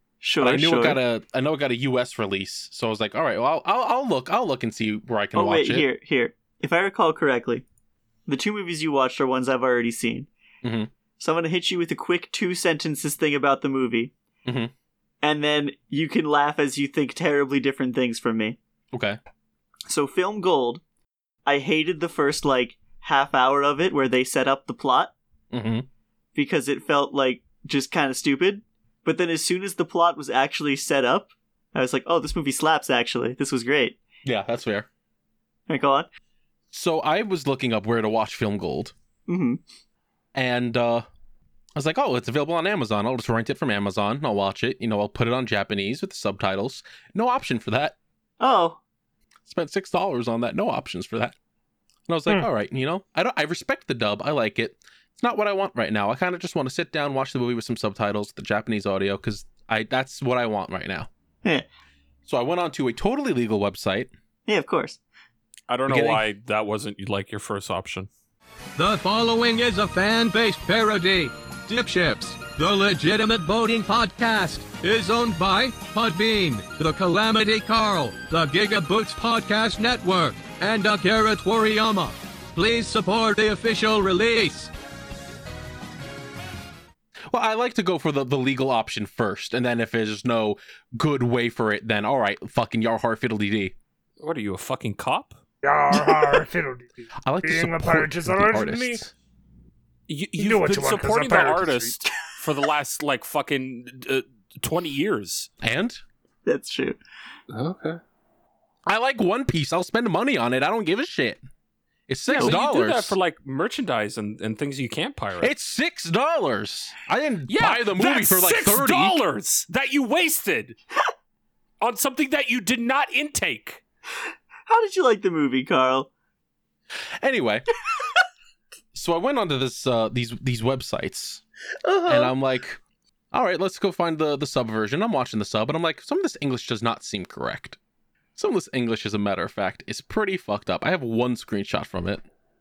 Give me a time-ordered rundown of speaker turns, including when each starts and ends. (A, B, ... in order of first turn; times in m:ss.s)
0:00.2-0:01.0 A
0:00.4-0:05.9 B
0:05.3-0:07.6 A
0:08.3-0:10.3 A
0:10.6-0:10.9 B
0:11.2-0:14.1 A
0:14.4-0:14.7 B
0:15.2-0:18.6 A
0:18.9-0:19.2 B
0:19.9-0:20.8 A
0:21.4-0:25.1 A
0:25.5-0:25.8 B
0:26.3-0:34.0 A
0:34.2-0:34.9 B
0:35.7-0:36.1 A
0:36.7-0:38.9 B
0:39.3-0:39.6 A
0:40.3-0:41.0 B
0:41.8-0:48.0 B
0:48.4-0:48.8 A
0:49.4-0:51.3 B
0:52.1-1:01.1 B
1:02.2-1:04.1 B
1:04.5-1:05.0 A
1:05.7-1:08.1 C
1:05.9-1:06.2 B
1:08.8-1:24.7 D
1:27.3-1:33.7 B
1:34.2-1:35.4 C
1:35.6-1:39.0 E
1:37.2-1:39.1 B
1:40.1-1:45.5 C
1:40.4-1:41.9 E
1:45.6-1:46.0 B
1:46.4-1:47.0 A
1:47.5-1:48.0 C
1:48.8-1:51.4 B
1:52.1-1:53.2 B
1:52.3-1:55.5 C
1:55.4-1:59.2 B
1:57.5-2:00.8 C
2:01.8-2:03.8 C
2:04.7-2:06.1 A
2:07.2-2:07.6 B
2:08.9-2:11.4 B
2:11.8-2:12.3 A
2:12.1-2:12.8 B
2:13.3-2:17.8 B
2:18.4-2:22.2 B